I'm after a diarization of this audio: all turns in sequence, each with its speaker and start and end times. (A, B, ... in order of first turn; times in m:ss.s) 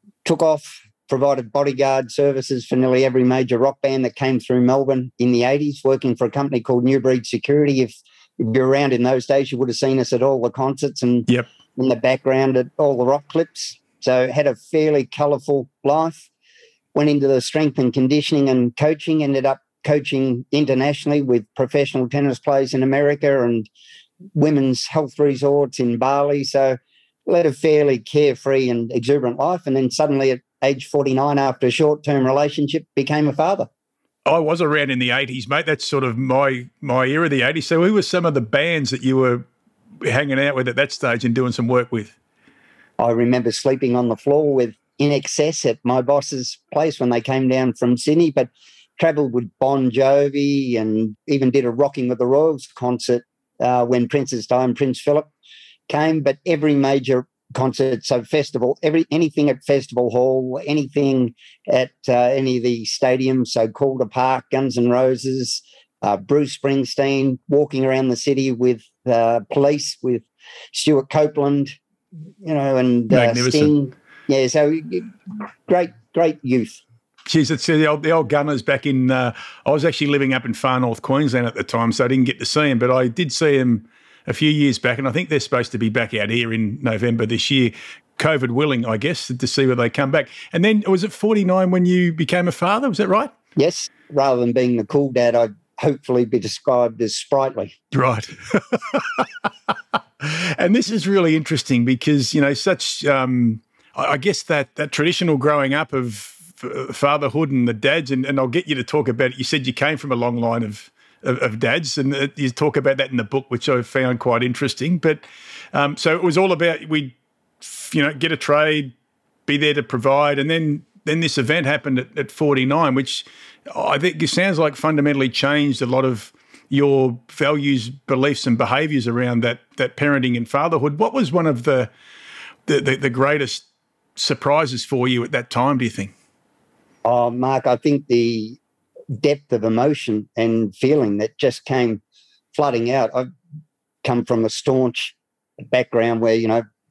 0:00.2-0:16.3 A
0:17.0-0:23.7 A
0:24.4-0:33.7 A
0:34.3-0:39.5 B
0:40.0-0:42.2 B
0:43.0-0:55.3 A
0:55.9-1:11.8 A
1:12.4-1:16.8 A
1:13.1-1:13.7 B
1:17.3-1:33.3 B
1:33.6-1:37.8 A
1:37.9-1:39.3 B
1:40.2-1:58.9 B
1:59.5-2:11.9 B
2:12.7-2:13.6 B
2:14.2-2:16.1 B
2:17.0-2:18.6 A
2:19.1-2:22.0 A
2:22.5-2:23.3 A
2:24.0-2:26.6 A